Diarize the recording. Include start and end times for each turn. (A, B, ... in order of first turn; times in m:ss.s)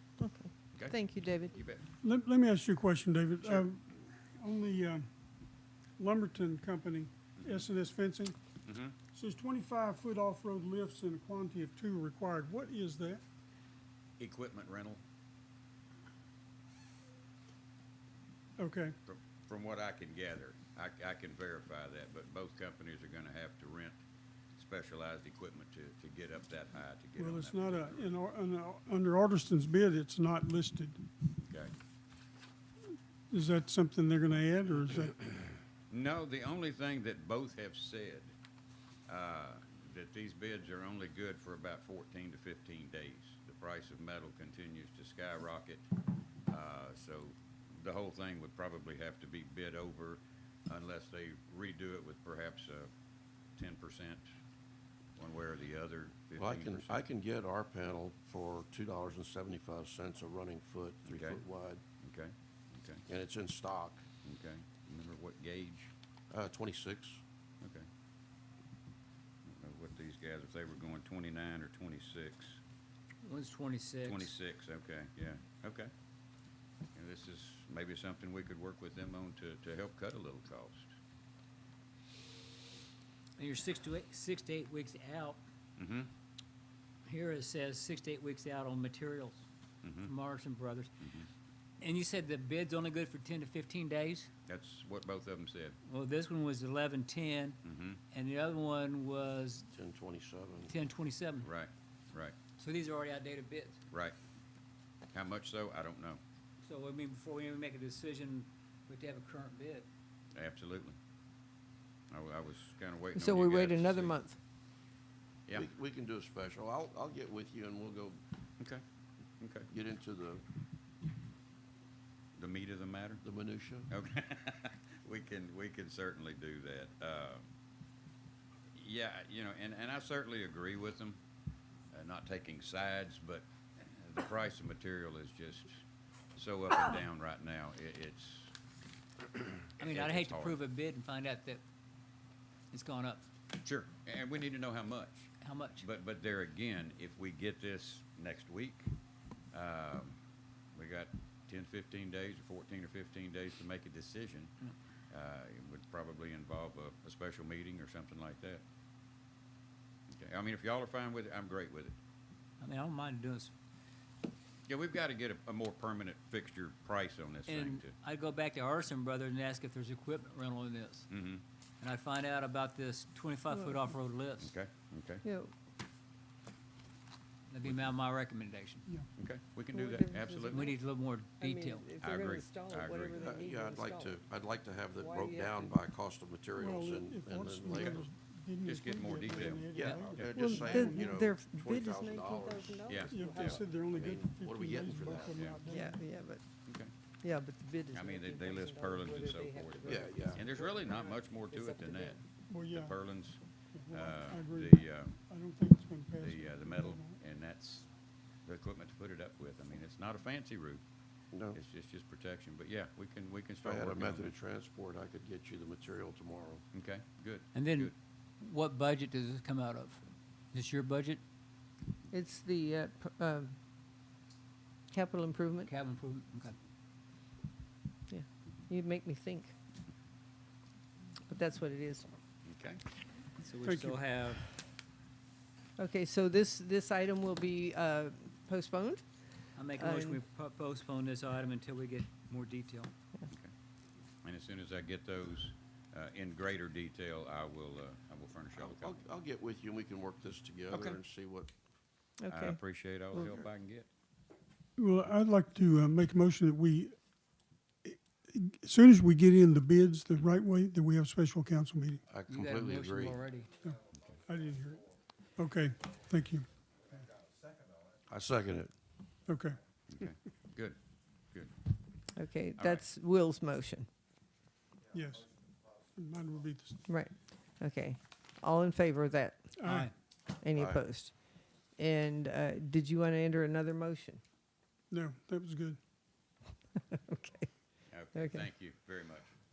0:00.2-0:01.6 A
0:01.5-0:01.8 B
0:02.0-0:05.1 C
0:06.0-0:08.4 C
0:08.6-0:09.0 B
0:09.1-0:13.2 C
0:14.2-0:15.0 B
0:18.6-0:19.0 C
0:19.0-0:24.0 B
0:24.6-0:28.2 B
0:27.2-0:31.0 C
0:31.4-0:31.7 B
0:33.3-0:35.3 C
0:35.9-0:38.3 B
0:39.1-0:45.9 B
0:46.5-0:52.9 B
0:53.6-0:54.3 B
0:55.2-0:57.0 B
0:56.4-1:01.8 D
1:01.0-1:01.4 B
1:02.0-1:03.0 B
1:03.1-1:04.0 D
1:04.2-1:05.9 B
1:06.3-1:07.2 D
1:07.6-1:07.9 B
1:09.4-1:12.6 B
1:13.2-1:14.3 E
1:14.0-1:15.9 B
1:16.9-1:20.9 B
1:23.4-1:25.4 E
1:25.8-1:26.1 B
1:27.0-1:29.4 E
1:29.8-1:30.1 B
1:30.0-1:30.9 E
1:31.0-1:31.3 B
1:31.8-1:34.3 E
1:34.4-1:35.8 B
1:35.8-1:37.6 E
1:37.6-1:38.0 B
1:38.1-1:39.7 E
1:39.7-1:40.7 D
1:40.7-1:41.5 E
1:41.4-1:42.4 B
1:42.6-1:43.8 E
1:43.9-1:44.2 B
1:45.1-1:46.2 B
1:46.6-1:49.9 E
1:50.3-1:51.0 B
1:52.1-1:54.1 B
1:53.1-1:54.4 A
1:55.5-1:58.2 D
1:59.4-1:59.7 B
1:59.7-2:00.4 D
2:02.4-2:03.2 B
2:03.2-2:03.9 D
2:03.9-2:07.4 B
2:08.7-2:11.2 B
2:11.9-2:15.8 B
2:16.4-2:18.5 B
2:19.7-2:20.6 B
2:19.8-2:21.6 E
2:22.7-2:23.3 E
2:23.6-2:28.9 B
2:25.4-2:25.8 E
2:29.5-2:30.2 B
2:30.7-2:34.5 B
2:35.1-2:38.6 B
2:40.1-2:42.0 B
2:42.6-2:43.5 E
2:44.7-2:47.9 B
2:47.5-2:51.1 E
2:51.1-2:51.4 B
2:51.8-2:54.5 E
2:54.4-2:55.2 B
2:55.2-2:55.5 A
2:57.5-2:58.8 E
2:59.2-3:00.7 B
2:59.7-3:00.8 A
3:00.5-3:01.8 E
3:01.4-3:04.2 A
3:02.0-3:03.2 B
3:03.2-3:08.1 D
3:04.9-3:05.7 A
3:06.6-3:11.2 C
3:08.6-3:10.3 B
3:09.7-3:15.4 D
3:10.3-3:13.6 A
3:12.9-3:13.1 B
3:13.1-3:16.0 C
3:15.3-3:15.6 B
3:15.6-3:16.4 A
3:16.6-3:16.9 B
3:17.2-3:22.2 A
3:17.9-3:25.2 B
3:19.8-3:20.4 D
3:22.5-3:23.0 C
3:23.7-3:27.2 C
3:26.2-3:27.9 B
3:28.4-3:30.8 B
3:31.3-3:31.6 D
3:31.5-3:34.3 B
3:33.6-3:36.6 D
3:36.7-3:37.9 B
3:37.5-3:41.2 E
3:42.1-3:43.6 A
3:44.9-3:45.7 A
3:45.6-3:46.5 E
3:48.1-3:49.5 A
3:51.3-3:52.1 A
3:52.4-3:52.8 B
3:53.4-3:54.5 E
3:53.6-3:54.0 C
3:55.8-3:59.0 A
3:59.6-4:02.9 E
3:59.7-4:00.2 A
4:04.2-4:09.0 B
4:08.6-4:11.5 D
4:10.7-4:11.0 B
4:12.2-4:12.6 A
4:12.3-4:13.9 B
4:13.1-4:13.5 D
4:14.8-4:17.0 C
4:17.8-4:22.0 C
4:22.1-4:23.2 D
4:22.3-4:23.5 E
4:23.6-4:26.5 C
4:23.9-4:24.2 B
4:28.1-4:28.7 D
4:29.3-4:29.6 C
4:29.9-4:30.8 B
4:32.1-4:33.9 A
4:32.6-4:32.8 B
4:34.9-4:35.4 C
4:35.9-4:36.8 C
4:36.9-4:39.5 A
4:39.6-4:39.9 C
4:39.6-4:39.9 E
4:40.4-4:41.1 A
4:40.6-4:40.8 D
4:41.8-4:44.2 A
4:44.9-4:45.8 C
4:46.8-4:47.5 A
4:47.9-4:49.3 B
4:48.1-4:48.4 A